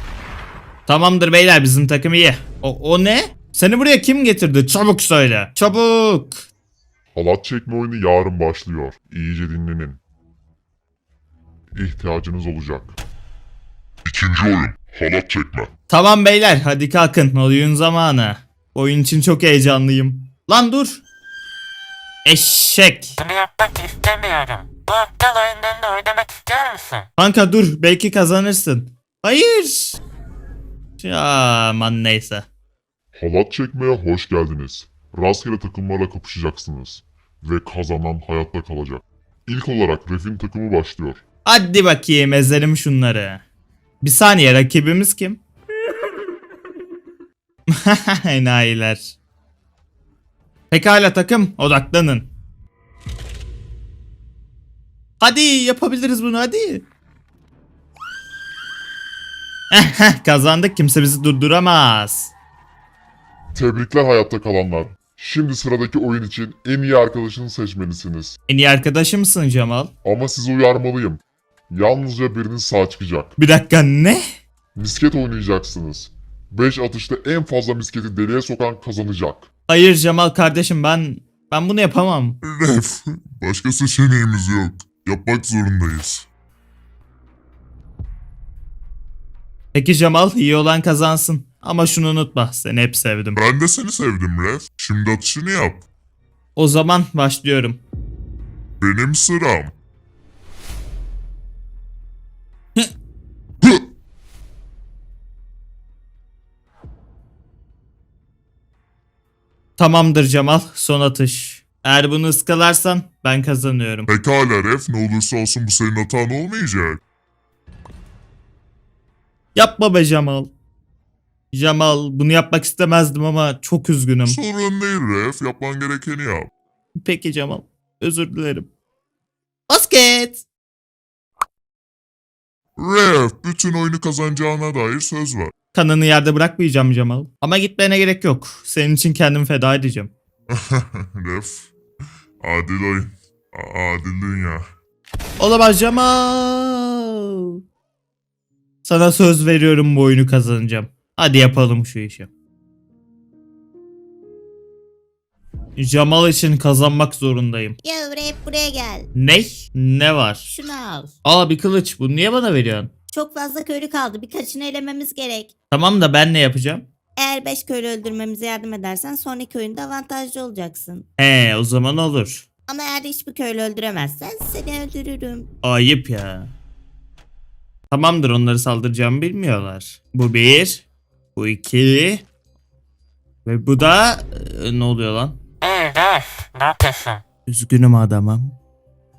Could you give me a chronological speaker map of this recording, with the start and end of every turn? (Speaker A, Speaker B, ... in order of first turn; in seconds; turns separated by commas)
Speaker A: 0.9-6.5, Speaker B: 7.1-10.0, Speaker B: 11.7-12.9, Speaker C: 14.1-15.7, Speaker A: 15.9-21.0, Speaker A: 22.2-23.1, Speaker D: 23.2-27.1, Speaker A: 27.2-30.0, Speaker A: 31.0-32.5, Speaker B: 33.1-41.2, Speaker A: 41.4-43.4, Speaker A: 44.0-45.4, Speaker A: 47.7-49.1, Speaker A: 50.7-52.3, Speaker A: 55.2-56.9, Speaker A: 59.7-62.3, Speaker B: 63.5-68.3, Speaker A: 68.5-69.9, Speaker B: 70.0-71.2, Speaker B: 71.7-73.3, Speaker A: 73.4-74.2, Speaker B: 74.7-79.5, Speaker A: 79.7-82.4, Speaker C: 82.4-86.3, Speaker A: 89.7-93.4, Speaker C: 93.3-95.8, Speaker A: 96.5-97.8, Speaker C: 98.8-99.7, Speaker A: 109.8-114.1, Speaker C: 114.1-117.0, Speaker A: 119.5-120.5, Speaker A: 121.5-124.4, Speaker C: 124.2-126.5, Speaker A: 127.0-128.7, Speaker A: 129.7-130.4, Speaker C: 132.8-135.5, Speaker A: 135.7-140.1, Speaker C: 140.5-141.7, Speaker C: 142.4-144.6, Speaker A: 145.4-147.6, Speaker A: 148.8-152.3, Speaker A: 155.8-157.8, Speaker E: 157.8-159.1, Speaker A: 159.1-160.4, Speaker E: 160.4-161.1, Speaker A: 161.2-162.9, Speaker E: 163.1-165.5, Speaker A: 165.7-166.8, Speaker E: 167.2-171.1, Speaker A: 171.2-172.4, Speaker E: 172.7-175.5, Speaker A: 175.6-176.5, Speaker A: 177.9-180.8, Speaker A: 181.3-182.2, Speaker A: 183.4-185.4, Speaker D: 185.6-187.2, Speaker A: 187.5-188.6